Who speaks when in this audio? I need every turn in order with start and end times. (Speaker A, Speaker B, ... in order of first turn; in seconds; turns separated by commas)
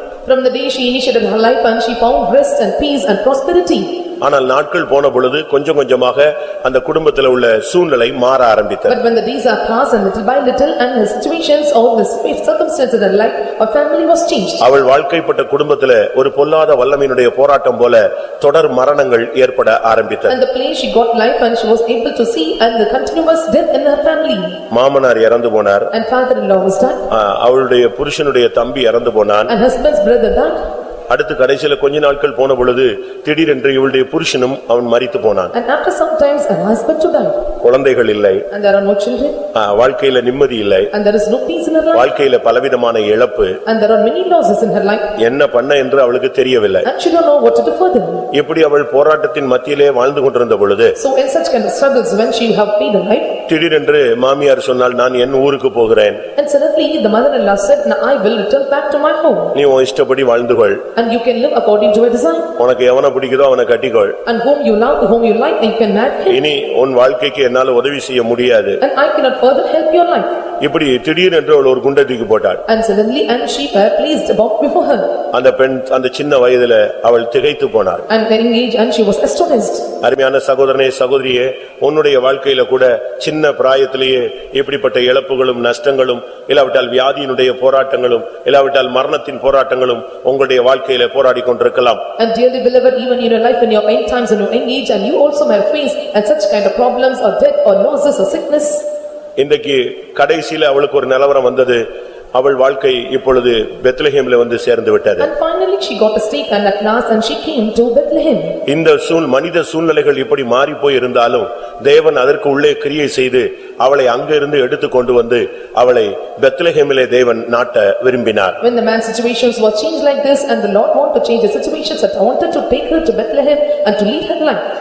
Speaker A: 0.2-4.0, Speaker B: 4.2-9.0, Speaker A: 8.9-14.7, Speaker B: 14.6-20.4, Speaker A: 20.3-24.6, Speaker B: 24.7-25.9, Speaker A: 25.9-27.0, Speaker B: 27.1-29.5, Speaker A: 29.5-30.6, Speaker B: 31.1-35.5, Speaker A: 35.5-37.4, Speaker B: 37.6-38.4, Speaker A: 38.5-39.4, Speaker B: 39.5-40.9, Speaker A: 40.9-42.1, Speaker B: 41.9-43.6, Speaker A: 43.6-45.1, Speaker B: 45.2-46.9, Speaker A: 46.8-48.3, Speaker B: 48.3-51.0, Speaker A: 51.0-53.4, Speaker B: 53.5-56.2, Speaker A: 56.4-59.5, Speaker B: 59.5-60.8, Speaker A: 61.0-62.5, Speaker B: 62.6-64.2, Speaker A: 64.2-66.4, Speaker B: 66.3-68.8, Speaker A: 68.8-70.3, Speaker B: 70.6-72.6, Speaker A: 72.7-75.2, Speaker B: 75.3-78.0, Speaker A: 78.1-79.9, Speaker B: 80.0-92.0, Speaker A: 92.2-98.8, Speaker B: 99.4-105.3, Speaker A: 105.2-108.6, Speaker B: 108.7-118.6, Speaker A: 118.6-124.6